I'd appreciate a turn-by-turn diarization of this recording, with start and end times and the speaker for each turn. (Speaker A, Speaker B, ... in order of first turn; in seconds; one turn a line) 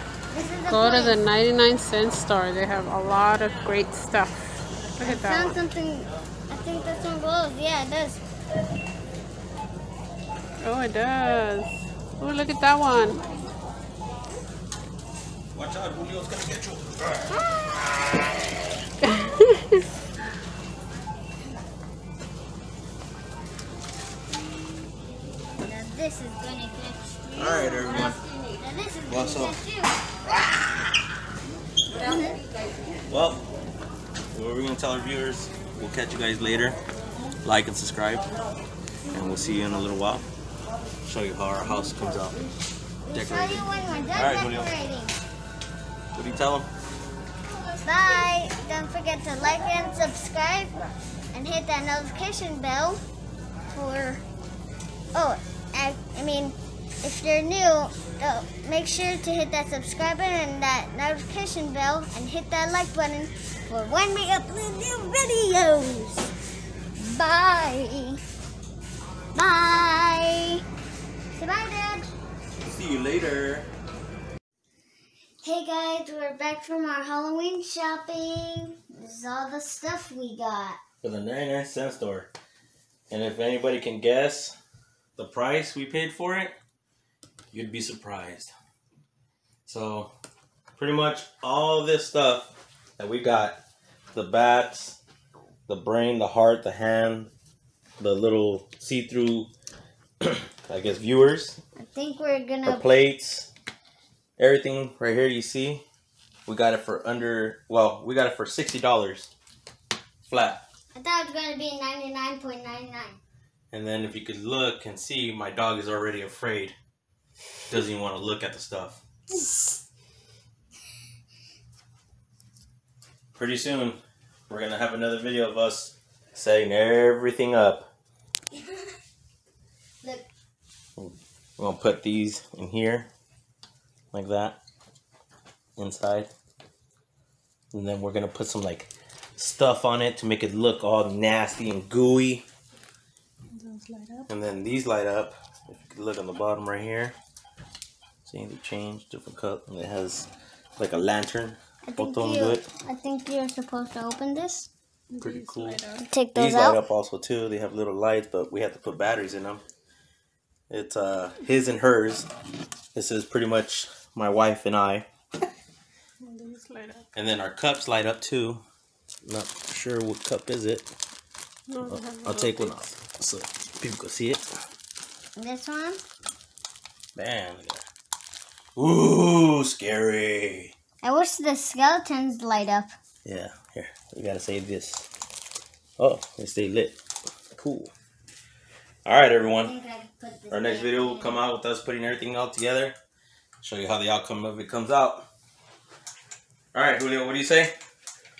Speaker A: 0.3-1.2
Speaker B: 0.7-5.6
Speaker A: 5.0-8.2
Speaker B: 10.6-13.2
Speaker C: 15.5-17.3
Speaker A: 17.3-18.1
Speaker B: 19.0-19.8
Speaker A: 25.6-30.0
Speaker C: 27.4-28.2
Speaker C: 29.1-29.6
Speaker A: 31.9-32.4
Speaker C: 33.1-33.4
Speaker C: 34.3-36.8
Speaker C: 37.4-38.3
Speaker C: 39.1-40.2
Speaker C: 41.0-42.4
Speaker A: 43.0-45.2
Speaker C: 43.1-44.7
Speaker C: 46.1-46.7
Speaker A: 47.8-50.7
Speaker A: 51.3-53.0
Speaker A: 53.7-54.2
Speaker A: 55.1-66.3
Speaker A: 66.9-68.2
Speaker A: 69.3-70.6
Speaker A: 71.3-72.1
Speaker C: 72.6-73.7
Speaker A: 75.4-80.8
Speaker C: 81.0-82.3
Speaker C: 83.1-84.5
Speaker C: 85.2-86.5
Speaker C: 87.5-88.5
Speaker C: 89.7-90.1
Speaker C: 90.8-93.6
Speaker C: 94.1-95.0
Speaker C: 95.7-97.3
Speaker C: 98.0-99.5
Speaker C: 100.2-101.6
Speaker A: 101.8-102.8
Speaker C: 102.6-103.5
Speaker C: 104.4-105.8
Speaker C: 106.5-109.3
Speaker C: 110.3-110.6
Speaker A: 110.9-113.2
Speaker C: 113.7-116.8
Speaker C: 117.7-119.0
Speaker C: 123.3-127.9
Speaker A: 128.5-128.9
Speaker A: 130.0-130.3
Speaker C: 131.0-133.1
Speaker C: 134.1-134.6
Speaker C: 135.8-136.3
Speaker C: 137.7-142.4
Speaker B: 143.5-144.3
Speaker C: 144.3-147.2
Speaker C: 148.2-152.7
Speaker A: 151.8-154.7
Speaker B: 155.1-156.0
Speaker C: 155.2-159.6
Speaker A: 156.1-156.8
Speaker C: 160.7-162.3
Speaker C: 162.9-165.1
Speaker B: 166.2-167.1
Speaker C: 167.1-168.6
Speaker C: 169.2-170.9
Speaker B: 171.7-172.9
Speaker C: 171.8-174.5
Speaker A: 175.3-176.0
Speaker C: 177.1-177.8
Speaker C: 178.8-180.7
Speaker A: 181.0-182.9
Speaker C: 183.2-185.1
Speaker C: 186.0-187.0
Speaker C: 187.5-187.9
Speaker C: 189.0-189.7
Speaker A: 189.6-191.4
Speaker C: 190.5-192.9
Speaker C: 193.6-195.2
Speaker C: 196.7-197.7